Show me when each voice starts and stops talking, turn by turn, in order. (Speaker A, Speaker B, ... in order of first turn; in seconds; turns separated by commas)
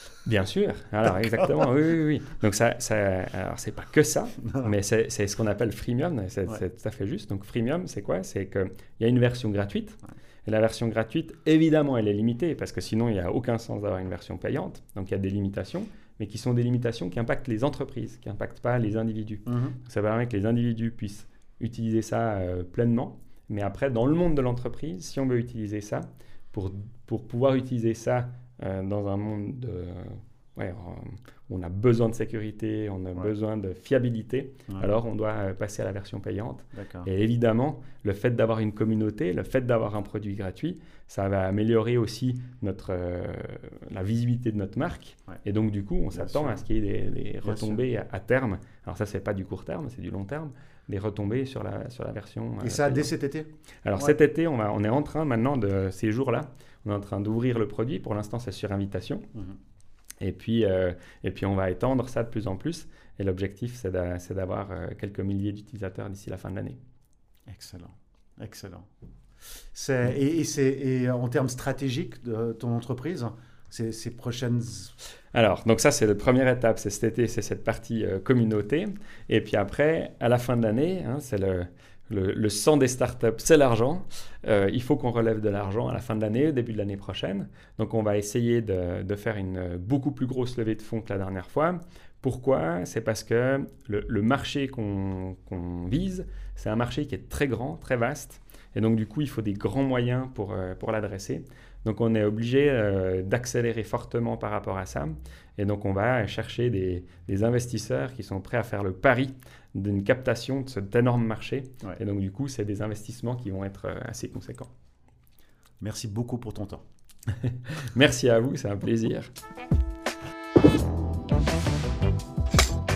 Speaker A: 0.2-53.1, Speaker B: 4.4-4.7, Speaker B: 19.5-19.8, Speaker B: 36.7-37.1, Speaker B: 46.1-46.6, Speaker B: 47.4-47.8, Speaker B: 52.6-54.1, Speaker A: 53.8-59.3, Speaker A: 60.2-66.8, Speaker B: 67.5-68.9, Speaker B: 69.7-74.9, Speaker A: 75.3-114.7, Speaker B: 115.8-116.8, Speaker A: 117.3-119.3